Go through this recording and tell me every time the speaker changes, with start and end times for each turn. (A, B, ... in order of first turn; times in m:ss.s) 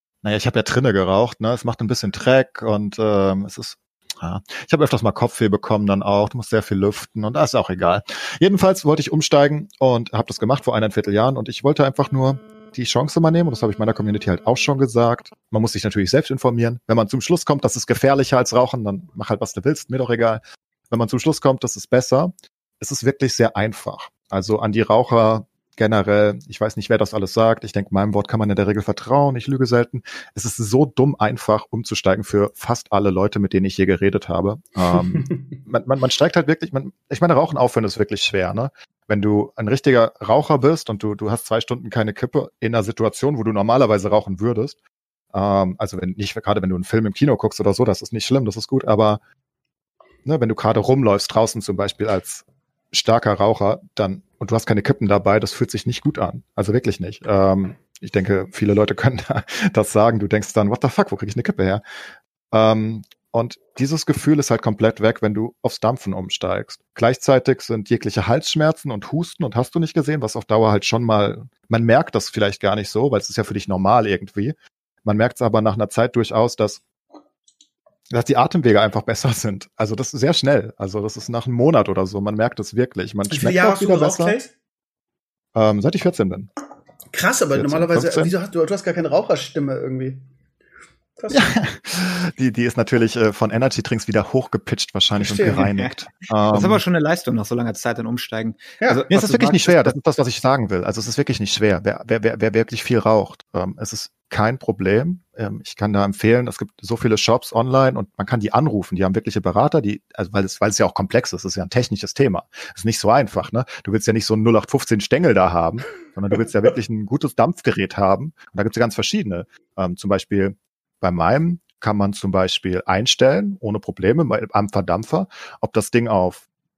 0:00.2-0:44.8 A
0:35.0-0:35.4 B
0:45.3-0:49.2 A
0:50.2-1:01.8 A
1:02.5-1:16.8 A
1:18.1-1:24.4 A
1:23.3-1:24.5 B
1:25.5-1:26.5 A
1:27.1-1:30.2 B
1:27.5-1:28.3 A
1:31.2-1:31.6 B
1:31.3-1:36.8 A
1:35.2-1:35.6 B
1:35.6-1:35.9 C
1:36.5-1:40.0 C
1:39.1-2:06.4 A